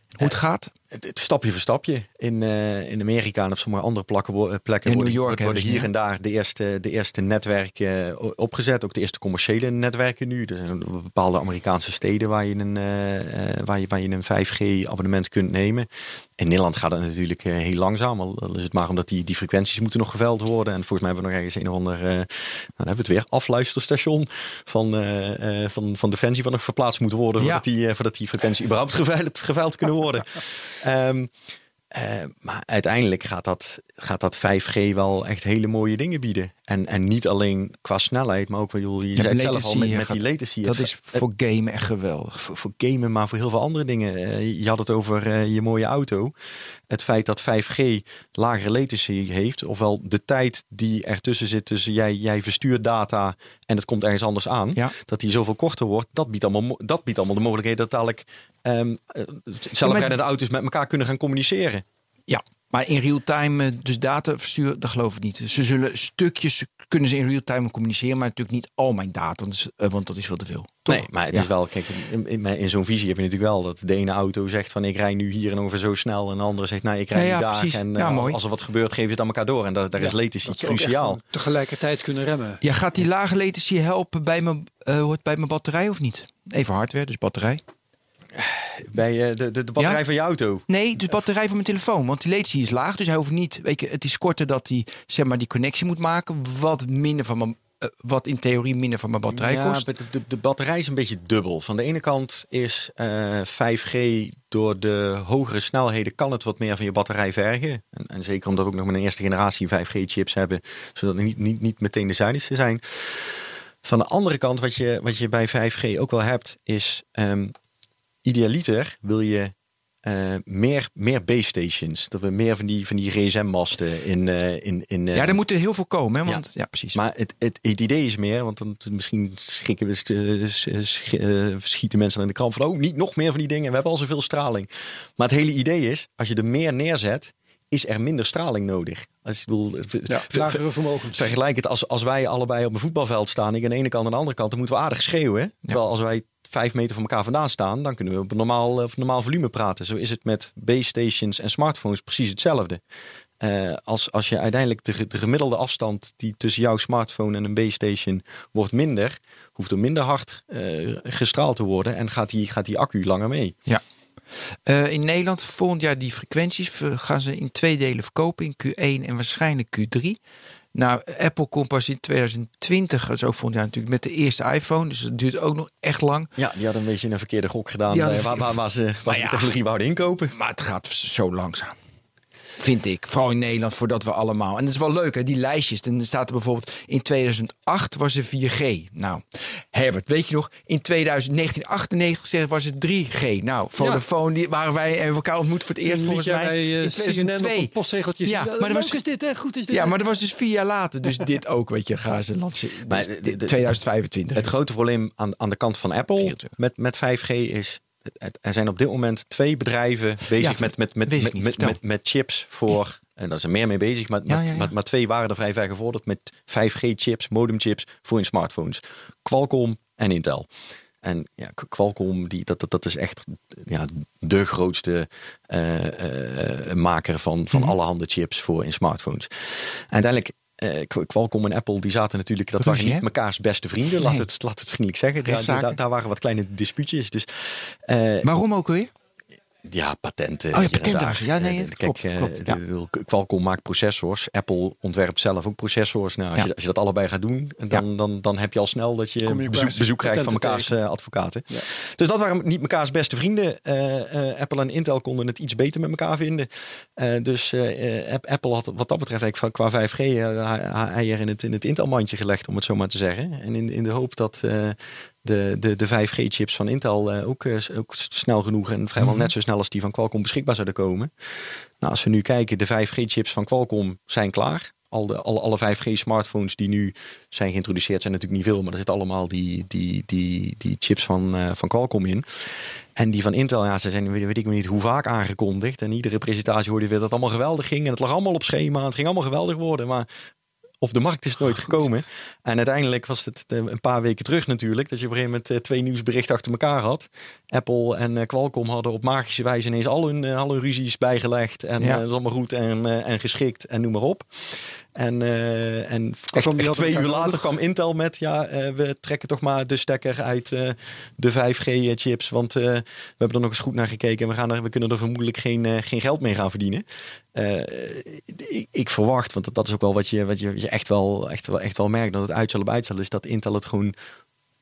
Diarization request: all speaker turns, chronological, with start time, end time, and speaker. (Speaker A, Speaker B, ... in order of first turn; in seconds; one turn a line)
Speaker A: 0.2-0.7
Speaker B: 0.9-31.3
Speaker A: 4.8-5.9
Speaker A: 27.4-27.6
Speaker B: 31.9-41.2
Speaker A: 39.1-42.4
Speaker B: 42.4-46.3
Speaker B: 46.9-61.8
Speaker A: 59.8-60.2
Speaker A: 62.3-71.5
Speaker B: 70.9-81.2
Speaker A: 77.1-78.4
Speaker C: 80.0-82.6
Speaker A: 82.6-87.6
Speaker B: 88.3-90.6
Speaker A: 89.8-90.0
Speaker A: 90.7-99.8
Speaker B: 99.3-117.5
Speaker B: 118.2-125.4
Speaker A: 125.1-127.0
Speaker B: 126.2-152.8
Speaker C: 140.1-141.3
Speaker B: 153.4-163.6
Speaker A: 164.7-170.2
Speaker A: 170.7-176.3
Speaker B: 176.4-180.3
Speaker A: 177.9-179.6
Speaker A: 180.3-181.7
Speaker A: 182.6-197.7
Speaker C: 195.8-200.1
Speaker A: 198.2-199.0
Speaker A: 199.7-204.5
Speaker B: 202.9-203.8
Speaker B: 204.3-220.5
Speaker A: 206.2-206.5
Speaker A: 210.4-211.8
Speaker A: 214.3-214.7
Speaker B: 221.0-238.3
Speaker A: 232.6-233.0
Speaker A: 234.0-234.2
Speaker A: 235.2-235.8
Speaker A: 238.2-238.9
Speaker B: 239.6-271.1
Speaker A: 240.5-242.6
Speaker C: 249.2-250.7
Speaker B: 271.8-282.2
Speaker B: 282.9-290.1
Speaker B: 290.8-323.9
Speaker C: 306.3-307.5